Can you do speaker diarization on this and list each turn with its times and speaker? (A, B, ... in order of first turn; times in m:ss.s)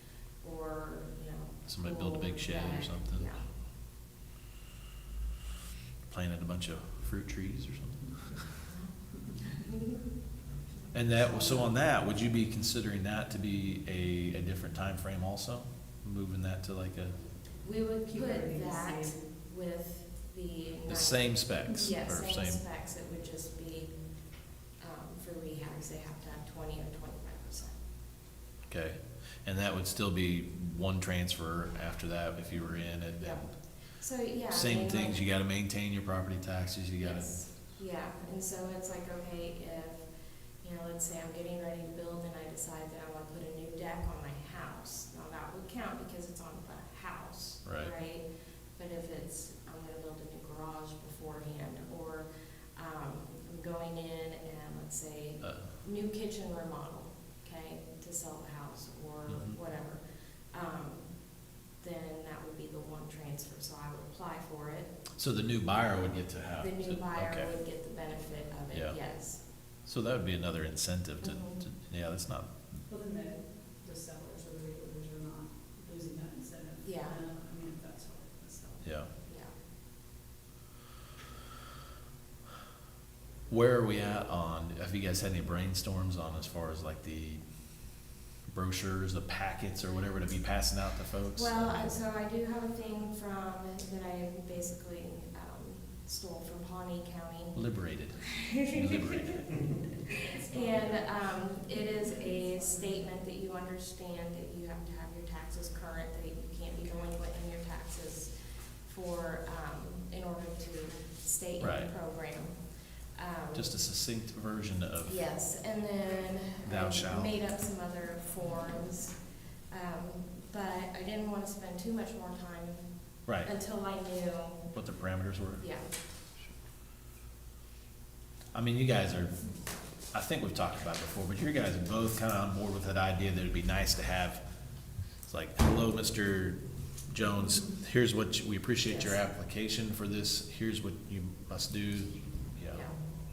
0:00.4-0:03.5 A
0:01.7-0:03.4 B
0:06.1-0:08.5 B
0:08.6-0:09.8 A
0:10.9-0:17.2 B
0:11.3-0:11.7 C
0:17.6-0:23.9 A
0:18.1-0:19.2 C
0:20.9-0:22.6 B
0:21.7-0:22.0 C
0:24.8-0:27.8 A
0:28.7-0:33.7 B
0:33.2-0:35.2 A
0:34.5-0:37.4 B
0:37.0-0:40.1 A
0:40.6-1:05.0 A
0:47.6-0:47.9 B
0:55.4-0:55.7 B
1:05.2-1:07.5 B
1:06.6-1:09.4 A
1:08.7-1:09.2 B
1:09.8-1:12.8 B
1:11.2-1:11.6 A
1:12.9-1:19.1 C
1:16.8-1:17.2 A
1:18.8-1:19.1 B
1:19.2-1:19.5 A
1:23.5-1:32.0 B
1:31.4-1:53.7 A
1:37.5-1:39.8 B
1:40.3-1:43.2 C
1:51.6-1:51.9 B
1:53.5-1:55.2 B
1:55.0-2:04.7 A
1:56.6-1:57.4 B
2:04.7-2:05.7 B
2:05.6-2:05.9 A
2:08.5-2:14.4 B
2:15.1-2:22.9 B
2:18.8-2:19.2 A
2:22.7-2:23.0 A